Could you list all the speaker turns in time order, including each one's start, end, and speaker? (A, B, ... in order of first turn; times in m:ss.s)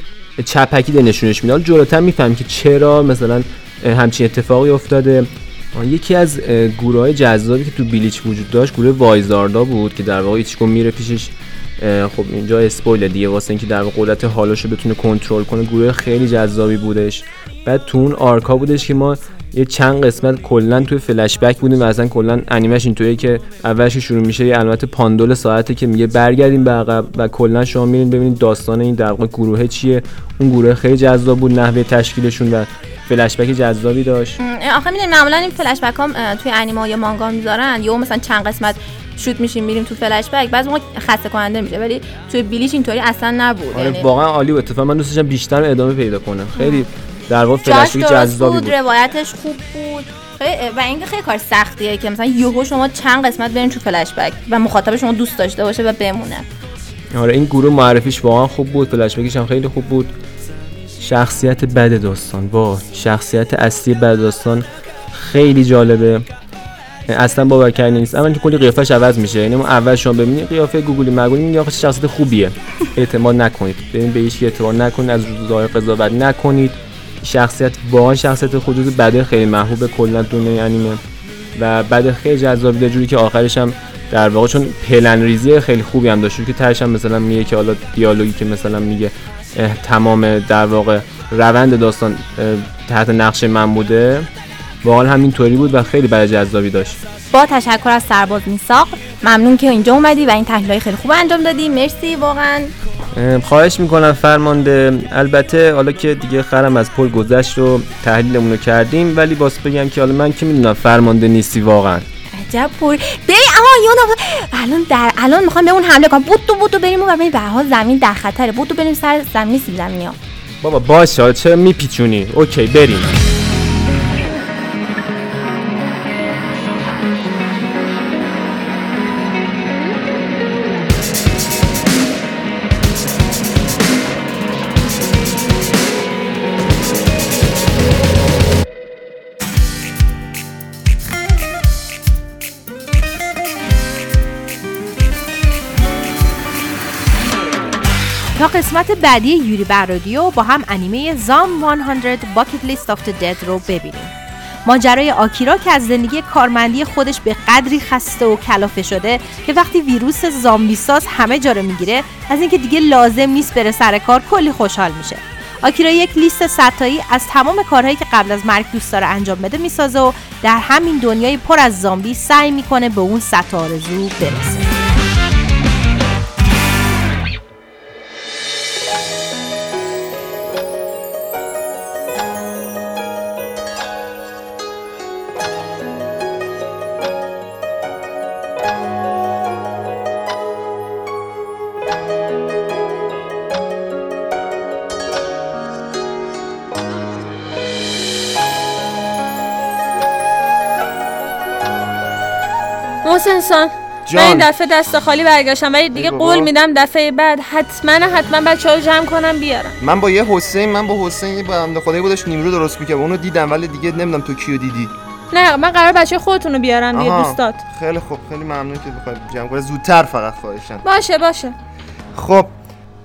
0:00.4-0:34.4 A
0:34.4-0:44.1 B
0:43.7-0:48.8 A
0:46.6-0:46.9 B
0:47.6-0:56.5 B
0:57.1-1:00.1 A
1:01.0-1:06.2 A
1:07.1-1:21.0 A
1:21.6-1:34.3 A
1:34.8-1:37.0 A
1:37.3-1:42.7 B
1:43.1-1:52.0 A
1:52.3-2:00.2 B
2:00.6-2:03.1 A
2:28.4-2:34.1 C
2:34.6-2:54.7 C
3:23.0-3:29.8 D
3:24.1-3:24.5 E
3:25.9-3:26.5 E
3:29.8-3:34.9 E
3:35.3-3:37.6 D
3:36.9-3:40.8 E
3:40.8-3:41.6 D
3:42.2-3:42.5 E